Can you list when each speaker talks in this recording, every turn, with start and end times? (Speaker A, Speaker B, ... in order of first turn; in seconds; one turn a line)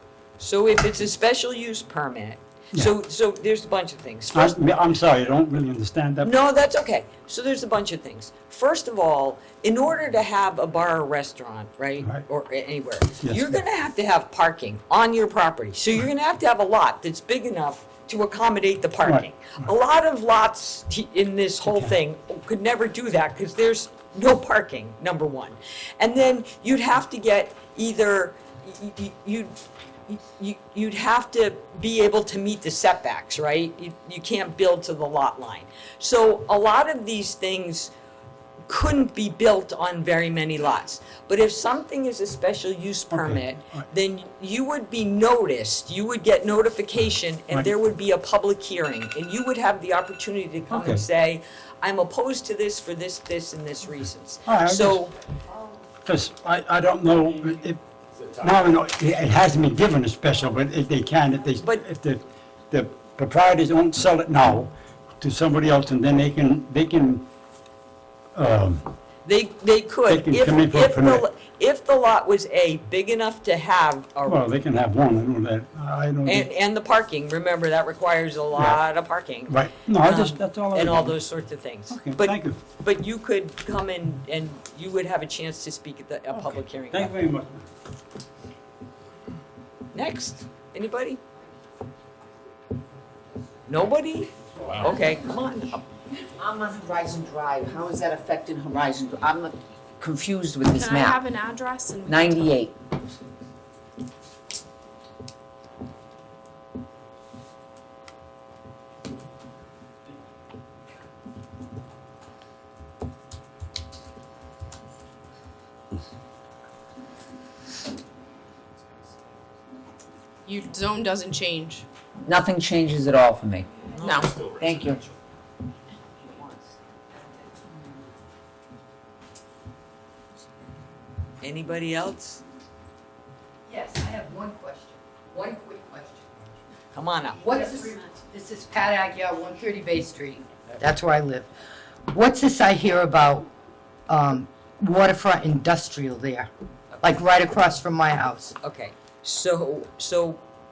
Speaker A: 0.4-4.6
Speaker B: 4.3-6.3
Speaker A: 6.2-29.6
Speaker B: 13.2-13.6
Speaker B: 19.0-19.7
Speaker B: 21.6-22.0
Speaker A: 30.1-37.9
Speaker A: 38.7-55.1
Speaker B: 43.1-43.9
Speaker B: 50.7-51.1
Speaker B: 54.5-55.0
Speaker B: 56.0-57.8
Speaker B: 58.4-67.3
Speaker B: 68.3-68.9
Speaker A: 69.2-74.5
Speaker B: 70.1-71.3
Speaker B: 74.3-76.5
Speaker A: 76.2-87.2
Speaker B: 78.5-78.8
Speaker B: 79.5-81.2
Speaker B: 81.9-82.6
Speaker B: 86.3-87.7
Speaker A: 89.9-91.2
Speaker A: 93.7-95.9
Speaker C: 96.3-101.2
Speaker D: 100.7-102.4
Speaker C: 102.1-102.8
Speaker D: 120.5-121.8
Speaker C: 122.2-123.7
Speaker A: 123.9-124.3
Speaker D: 124.0-124.3
Speaker C: 124.6-125.0
Speaker A: 131.4-132.4
Speaker E: 133.7-136.3
Speaker A: 136.9-137.6
Speaker E: 137.4-141.5
Speaker E: 142.1-143.5
Speaker E: 144.1-146.5
Speaker A: 146.9-147.2
Speaker E: 147.0-148.5
Speaker A: 148.6-150.4